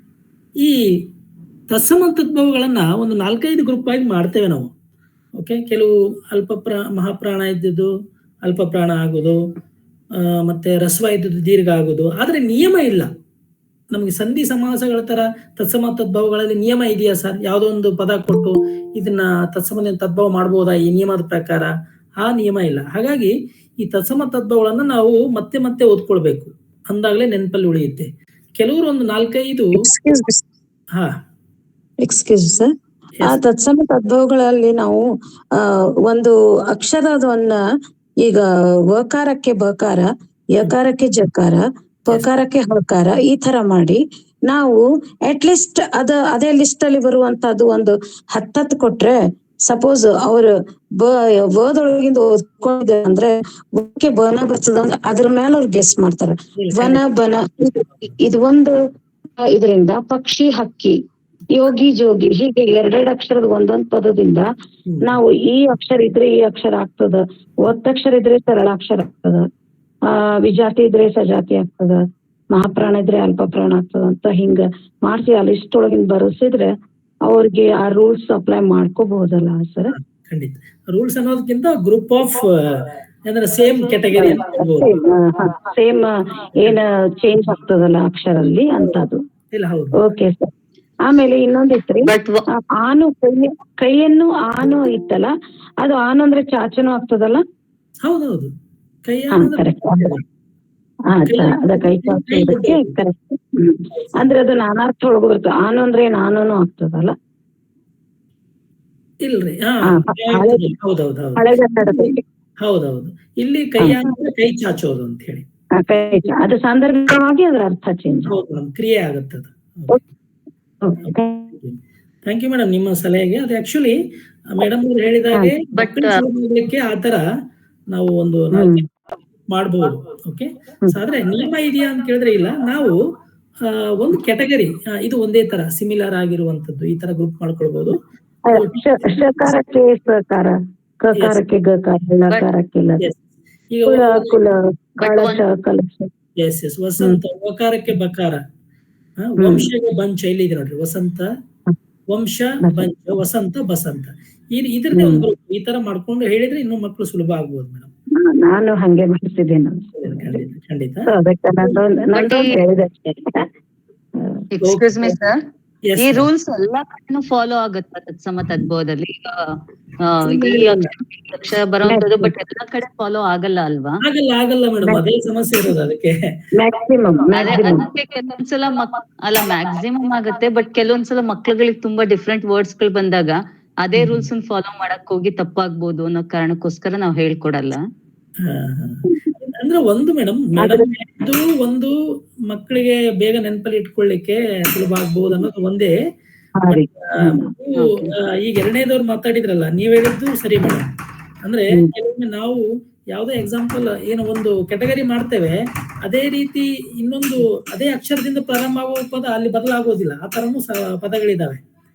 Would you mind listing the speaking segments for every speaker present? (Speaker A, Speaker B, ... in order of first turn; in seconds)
Speaker A: 0.6-1.1, 1.7-4.7, 5.4-7.9, 8.4-9.4, 10.2-13.1, 13.9-21.7, 22.2-29.7, 56.5-57.0, 64.9-65.1, 79.9-85.0, 89.5-90.0, 98.0-98.5, 99.0-100.2, 101.3-102.9, 104.0-104.3, 109.2-115.4, 118.3-119.9, 121.6-124.0, 124.5-127.2, 127.9-128.8, 129.5-132.9, 133.6-138.0, 138.5-139.5, 143.7-144.3, 146.4-148.4, 149.2-151.3, 152.1-157.9, 159.9-161.1, 164.6-165.2, 165.9-166.3, 170.4-170.9, 174.0-176.3, 184.0-184.3, 188.4-191.9, 192.5-195.9, 196.7-200.9, 201.4-211.6
Speaker B: 29.8-30.4, 32.0-32.7, 33.2-35.0, 35.6-37.6, 38.2-58.7, 59.4-61.0, 61.5-64.5, 65.0-69.5, 70.1-72.0, 72.5-76.7, 77.2-79.9, 84.2-86.1, 86.6-89.2, 90.0-90.5, 91.0-95.3, 95.8-97.4, 99.3-100.1, 101.1-107.1, 109.9-110.6, 111.4-112.2, 113.8-114.0, 115.8-118.3, 120.8-121.5, 138.5-143.0, 143.8-146.1, 149.4-149.7, 152.6-152.9, 154.9-155.2, 158.2-160.4, 161.1-163.4, 171.8-172.3, 176.6-177.8, 190.6-190.9, 196.6-198.0
Speaker C: 92.0-92.4, 125.7-126.2, 145.0-145.4, 162.1-162.6, 164.5-165.4, 166.0-169.4, 170.0-174.0, 177.3-187.8